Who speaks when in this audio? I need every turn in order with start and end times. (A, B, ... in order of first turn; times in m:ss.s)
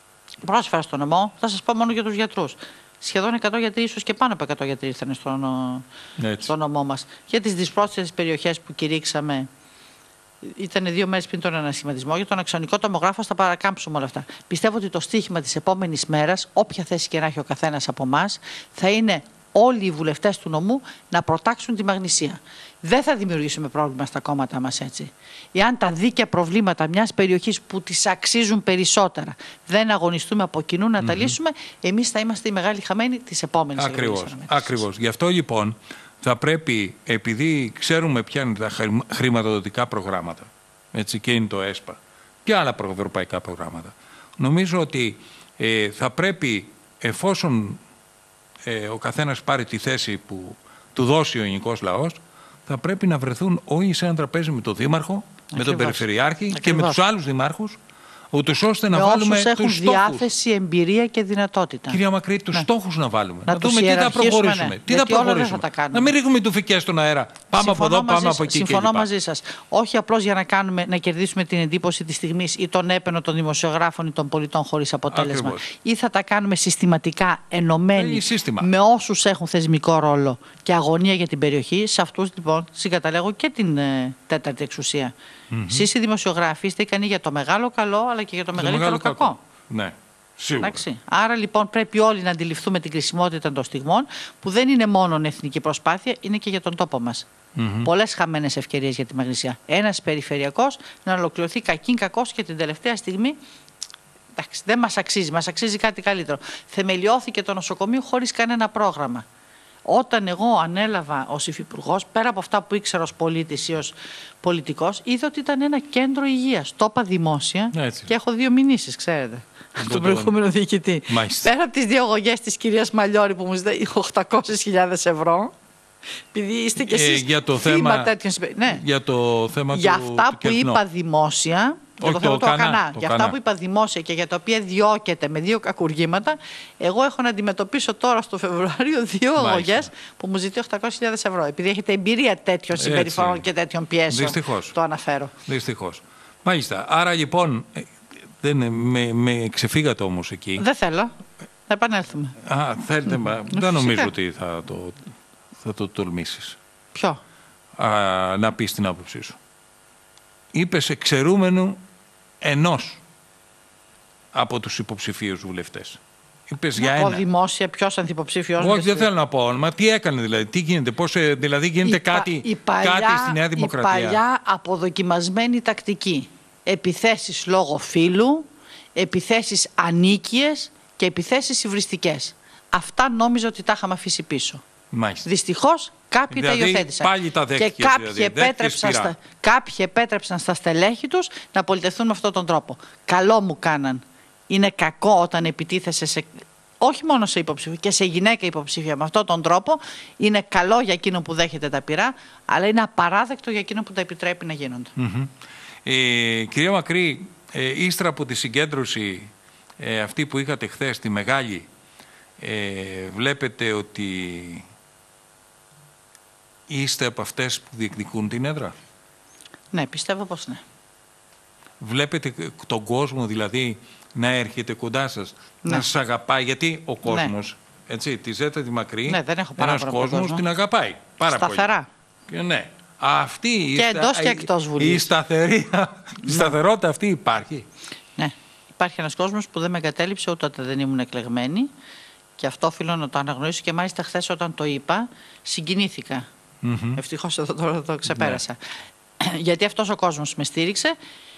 0:00.4-0:05.8 A
0:06.2-0:06.5 B
0:06.4-0:09.5 A
0:10.4-0:34.8 A
0:31.0-0:31.4 B
0:33.8-0:47.8 B
0:48.7-0:57.8 B
0:55.5-0:57.0 A
0:58.3-1:00.3 B
0:58.9-1:02.0 A
1:01.9-1:09.1 B
1:03.4-1:06.1 A
1:07.6-1:25.1 A
1:15.1-1:15.6 B
1:18.0-1:18.7 B
1:25.5-1:25.9 B
1:25.7-1:29.4 A
1:28.6-1:30.8 B
1:30.6-1:37.3 A
1:37.6-1:37.9 B
1:37.8-1:43.4 A
1:44.3-1:49.2 A
1:49.9-2:05.5 A
1:57.7-1:58.1 B
1:59.8-2:00.3 B
2:01.1-2:01.5 B
2:06.3-2:08.8 A
2:06.8-2:08.1 B
2:08.7-2:10.8 B
2:09.7-2:25.3 A
2:12.0-2:13.4 B
2:19.4-2:19.9 B
2:22.8-2:23.5 B
2:24.1-2:24.8 B
2:25.4-2:30.6 B
2:30.6-2:31.1 A
2:31.7-2:32.4 A
2:32.4-2:36.6 B
2:33.5-2:34.1 A
2:37.8-2:39.4 B
2:40.5-2:41.8 B
2:42.4-2:43.0 B
2:44.3-2:47.2 B
2:46.8-2:49.1 A
2:48.6-2:54.2 B
2:51.8-3:04.6 A
3:04.9-3:05.2 B
3:05.2-3:24.9 A
3:06.3-3:09.1 B
3:25.0-3:25.3 B
3:25.8-3:31.7 B
3:32.4-3:34.6 B
3:36.7-3:38.7 B
3:39.7-3:40.6 A
3:41.8-3:51.7 B
3:47.0-3:47.3 A
3:49.1-3:50.4 A
3:51.2-3:51.9 A
3:52.3-3:57.7 B
3:53.7-3:55.1 A
3:56.2-3:56.6 A
3:58.2-4:01.7 A
4:02.4-4:06.2 A
4:06.6-4:07.0 B
4:07.0-4:08.6 A
4:08.1-4:08.4 B
4:09.2-4:10.9 A